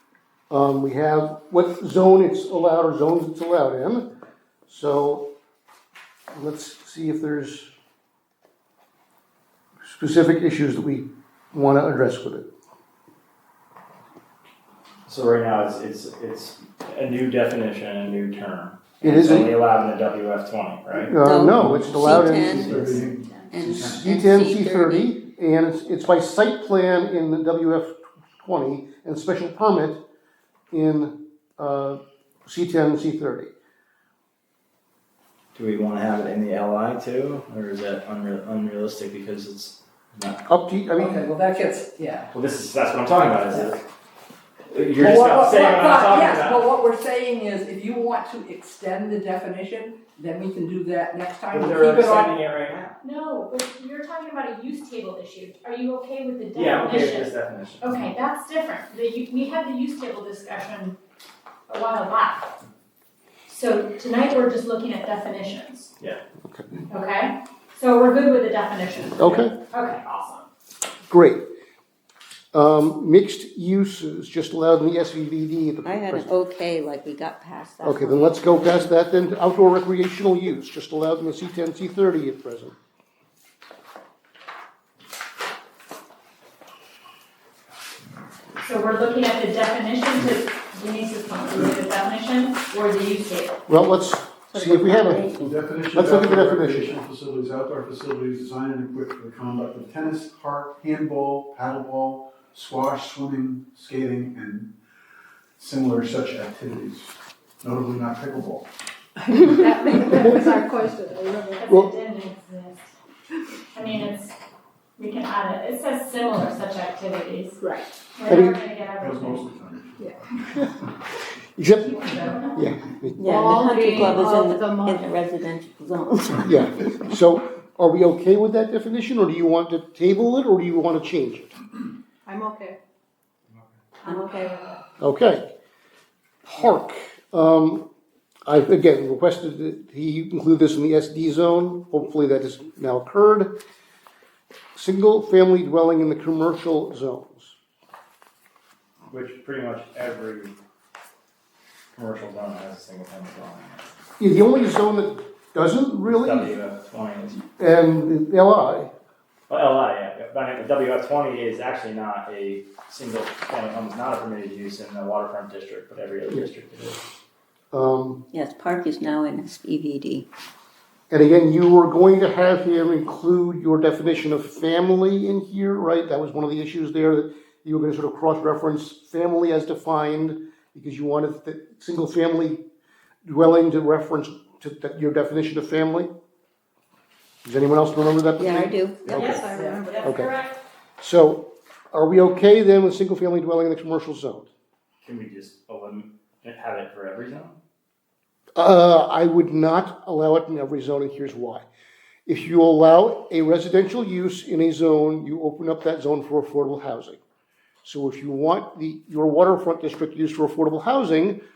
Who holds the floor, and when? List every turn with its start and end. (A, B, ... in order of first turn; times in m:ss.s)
0:00.5-0:04.1 A
0:04.7-0:05.3 A
0:06.3-0:07.7 A
0:09.8-0:12.5 A
0:15.1-0:21.2 B
0:19.0-0:19.6 A
0:21.0-0:22.8 A
0:21.2-0:25.1 C
0:21.6-0:24.0 D
0:23.6-0:30.0 A
0:30.7-0:33.5 A
0:35.6-0:40.4 B
0:40.5-0:41.3 A
0:40.9-0:42.3 E
0:42.3-0:43.8 B
0:43.5-0:43.8 E
0:44.7-0:46.7 B
0:45.0-0:52.4 E
0:51.5-0:53.0 B
0:53.0-1:01.0 F
0:56.6-0:58.0 B
1:01.7-1:02.6 F
1:03.5-1:05.9 F
1:06.5-1:06.8 A
1:06.9-1:10.5 F
1:09.2-1:09.6 A
1:11.1-1:11.4 A
1:12.5-1:16.3 A
1:15.8-1:18.9 C
1:17.8-1:22.8 A
1:28.6-1:33.6 F
1:33.7-1:35.3 A
1:34.5-1:35.6 C
1:35.4-1:44.7 D
1:35.9-1:37.0 A
1:45.6-1:48.7 D
1:49.3-1:51.6 G
1:51.6-1:52.9 F
1:53.7-1:54.4 F
1:55.0-1:57.6 F
1:57.6-1:57.9 G
1:58.1-1:59.5 F
1:58.3-1:58.6 A
1:59.0-2:00.7 D
2:01.6-2:03.3 A
2:01.8-2:02.7 F
2:03.2-2:06.6 C
2:03.3-2:05.0 G
2:06.4-2:11.5 A
2:12.3-2:12.8 G
2:14.1-2:14.8 F
2:14.1-2:14.5 G
2:15.0-2:15.4 A
2:16.5-2:17.9 A
2:18.5-2:23.6 A
2:24.8-2:27.6 A
2:29.1-2:30.6 B
2:32.0-2:33.8 B
2:34.2-2:36.6 A
2:36.1-2:37.4 B
2:37.6-2:38.9 A
2:39.5-2:47.0 B
2:47.7-2:48.2 A
2:48.3-2:50.3 C
2:51.1-3:02.6 A
3:03.2-3:06.1 A
3:07.4-3:09.5 A
3:08.4-3:09.2 C
3:09.1-3:10.5 F
3:09.6-3:10.1 G
3:10.0-3:10.4 A
3:11.0-3:14.5 A
3:15.0-3:17.6 B
3:18.6-3:21.6 A
3:22.3-3:27.2 A
3:27.8-3:31.4 A